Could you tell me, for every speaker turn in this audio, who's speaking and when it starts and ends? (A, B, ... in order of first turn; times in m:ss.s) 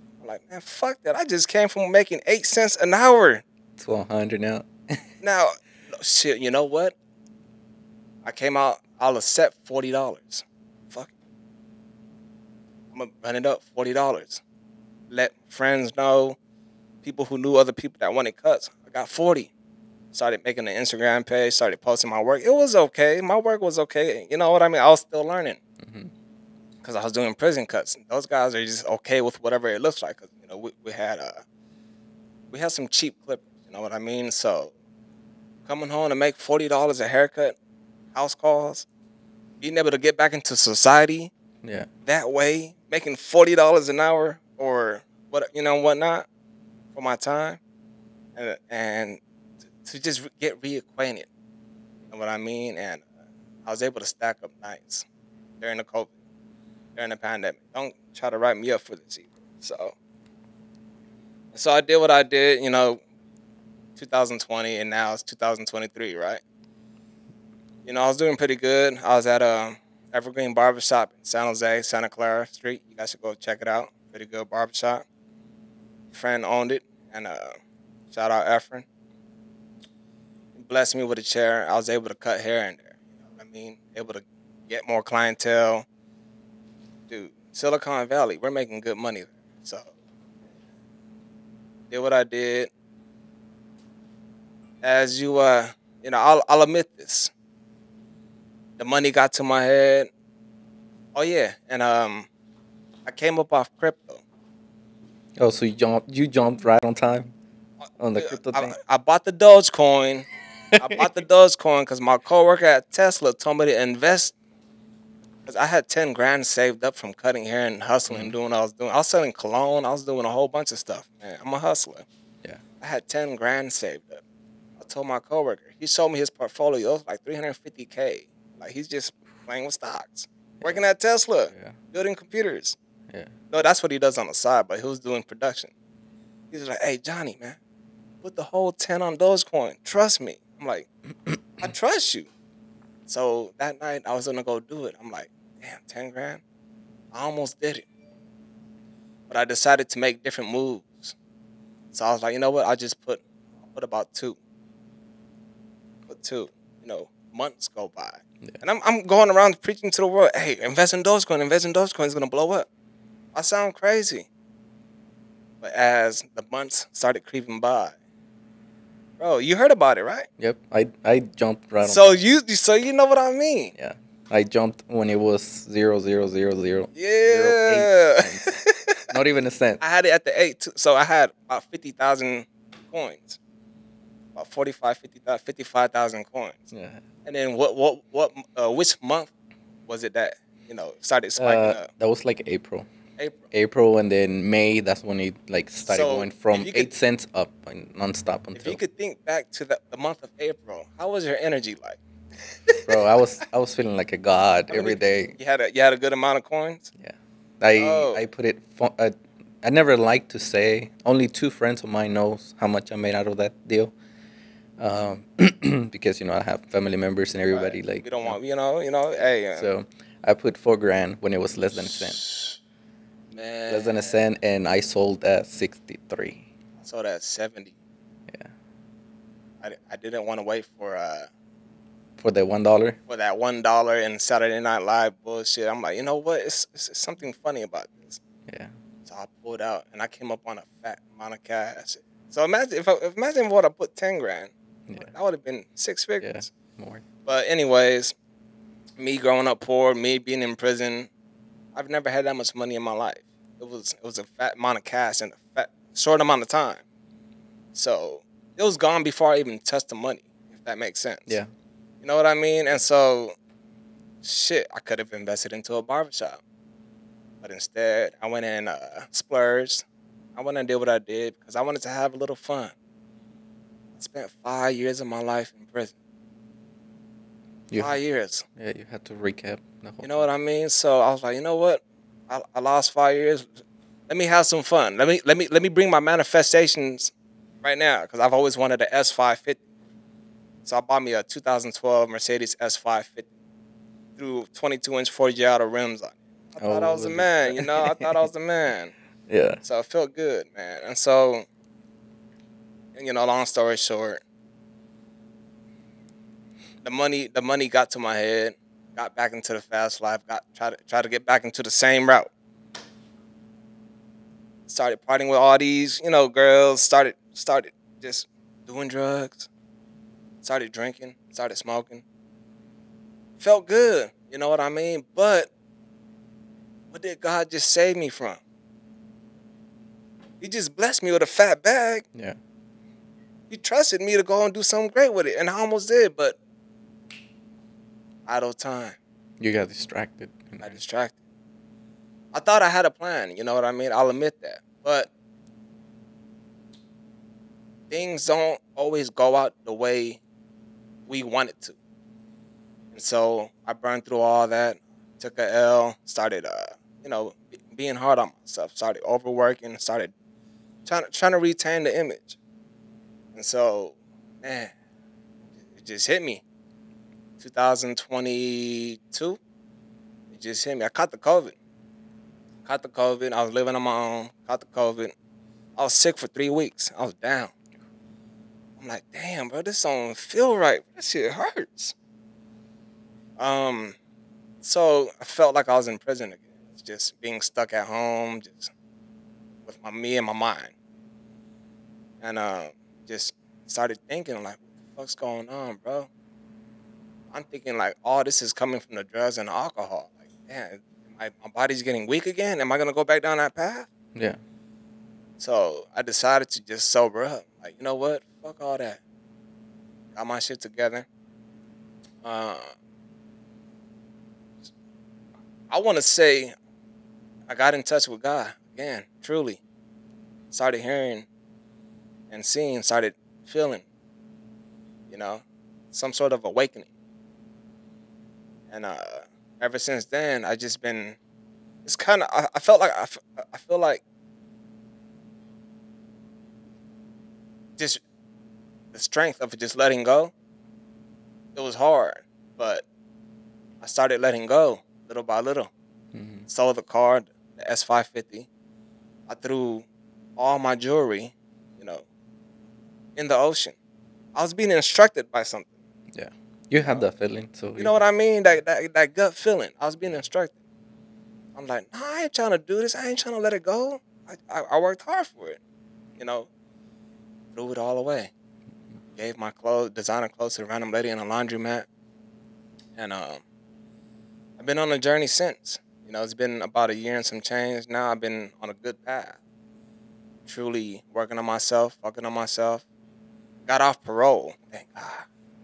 0:00.2-0:03.4 A
0:03.8-0:05.0 B
0:05.2-0:07.0 A
0:08.2-0:11.1 A
0:12.9-0:14.4 A
0:15.1-0:16.4 A
0:17.0-0:19.5 A
0:20.1-0:25.6 A
0:25.8-0:26.1 B
0:26.8-0:31.4 A
0:32.5-0:34.7 A
0:35.7-0:37.6 A
0:38.2-0:38.9 A
0:39.6-0:41.3 A
0:41.6-0:41.9 B
0:42.1-0:46.3 A
0:46.9-0:47.6 A
0:48.4-0:49.2 A
0:49.8-0:51.3 A
0:52.1-0:53.0 A
0:53.7-0:55.1 A
0:55.6-0:56.1 A
0:57.0-1:00.0 A
1:01.5-1:03.0 A
1:04.0-1:06.4 A
1:07.8-1:15.0 A
1:16.1-1:17.6 A
1:18.1-1:18.9 A
1:20.6-1:25.9 A
1:27.1-1:29.9 A
1:31.9-1:32.7 A
1:34.8-1:37.3 A
1:38.8-1:40.1 A
1:41.2-1:42.3 A
1:43.1-1:44.2 A
1:45.4-1:47.3 B
1:48.0-1:48.8 B
1:48.2-1:54.4 A
1:50.8-1:51.0 B
1:55.5-2:02.1 A
1:58.1-1:58.3 B
2:02.8-2:04.2 A
2:04.8-2:12.8 A
2:13.5-2:15.7 A
2:16.5-2:17.6 A
2:18.2-2:20.9 A
2:21.6-2:22.3 A
2:23.1-2:26.4 A
2:27.1-2:27.9 A
2:29.3-2:31.2 A
2:31.9-2:34.4 A
2:36.1-2:42.7 A
2:43.4-2:44.3 A
2:45.6-2:48.0 A
2:49.2-2:50.3 A
2:50.4-2:52.2 B
2:51.8-2:53.8 A
2:53.8-2:58.6 B
2:56.9-2:59.1 A
2:59.1-2:59.8 B
2:59.8-3:03.4 A
3:04.4-3:06.7 A
3:06.7-3:07.0 B
3:07.2-3:09.3 A
3:09.9-3:11.9 A
3:11.4-3:12.9 B
3:13.2-3:13.4 A
3:13.5-3:18.8 B
3:15.9-3:16.9 A
3:18.6-3:22.0 A
3:22.8-3:25.4 B
3:24.7-3:26.9 A
3:27.0-3:33.9 B
3:27.7-3:28.2 A
3:34.8-3:38.4 B
3:37.5-3:39.7 A
3:39.6-3:42.2 B
3:41.8-3:42.6 A
3:43.3-3:44.2 A
3:43.7-3:46.5 B
3:46.8-3:47.8 A
3:49.6-3:51.3 A
3:52.2-3:53.0 B
3:53.1-3:58.2 A
3:58.5-3:58.7 B
3:59.1-4:06.5 A
4:06.2-4:07.0 B
4:07.2-4:08.1 A
4:09.0-4:11.1 A
4:11.8-4:16.8 A
4:17.8-4:21.4 A
4:22.0-4:23.3 A
4:24.2-4:26.4 A
4:27.4-4:29.8 A
4:30.4-4:32.8 A
4:34.0-4:35.9 A
4:37.7-4:38.0 B
4:37.8-4:38.4 A
4:38.6-4:40.3 B
4:40.0-4:43.5 A
4:44.1-4:47.1 A
4:47.6-4:49.6 A
4:50.6-4:53.3 A
4:54.2-4:58.9 A
4:56.6-4:58.2 B
4:59.3-4:59.6 B
4:59.6-5:01.5 A
5:02.9-5:04.2 A
5:06.8-5:12.3 A
5:14.7-5:19.5 A
5:20.4-5:22.0 A
5:23.4-5:25.5 A
5:26.9-5:28.4 A
5:30.4-5:32.1 A
5:33.5-5:36.4 A
5:38.3-5:39.0 A
5:39.4-5:40.8 B
5:40.6-5:41.1 A
5:42.3-5:45.1 A
5:47.9-5:50.2 A
5:51.1-5:51.8 A
5:52.9-6:00.1 A
6:00.9-6:02.4 A
6:03.4-6:04.7 A
6:05.8-6:06.4 A
6:07.4-6:09.4 A
6:10.3-6:11.6 A
6:12.6-6:15.1 A
6:15.8-6:17.5 A
6:18.8-6:21.9 A
6:23.4-6:24.0 A
6:24.6-6:28.7 A
6:29.7-6:30.7 A
6:32.2-6:36.1 A
6:37.3-6:43.9 A
6:45.4-6:49.0 A
6:50.1-6:51.1 A
6:52.2-6:52.8 A
6:55.7-6:56.5 A
6:57.5-6:59.6 A
7:00.5-7:01.3 A
7:02.3-7:03.8 A
7:05.1-7:06.9 A
7:08.7-7:11.2 A
7:11.8-7:14.0 A
7:18.9-7:20.3 A
7:21.6-7:22.8 A
7:23.8-7:25.7 A
7:26.1-7:26.5 B
7:26.5-7:28.5 A
7:29.3-7:32.0 A
7:33.2-7:33.8 A
7:34.4-7:35.7 A
7:36.1-7:38.0 B
7:36.8-7:37.1 A
7:37.8-7:40.6 A
7:41.6-7:45.6 A
7:46.2-7:46.5 A
7:47.6-7:48.3 A
7:49.2-7:51.9 A
7:53.0-7:53.4 A
7:54.6-7:59.4 A
8:00.5-8:02.8 A
8:03.7-8:05.3 A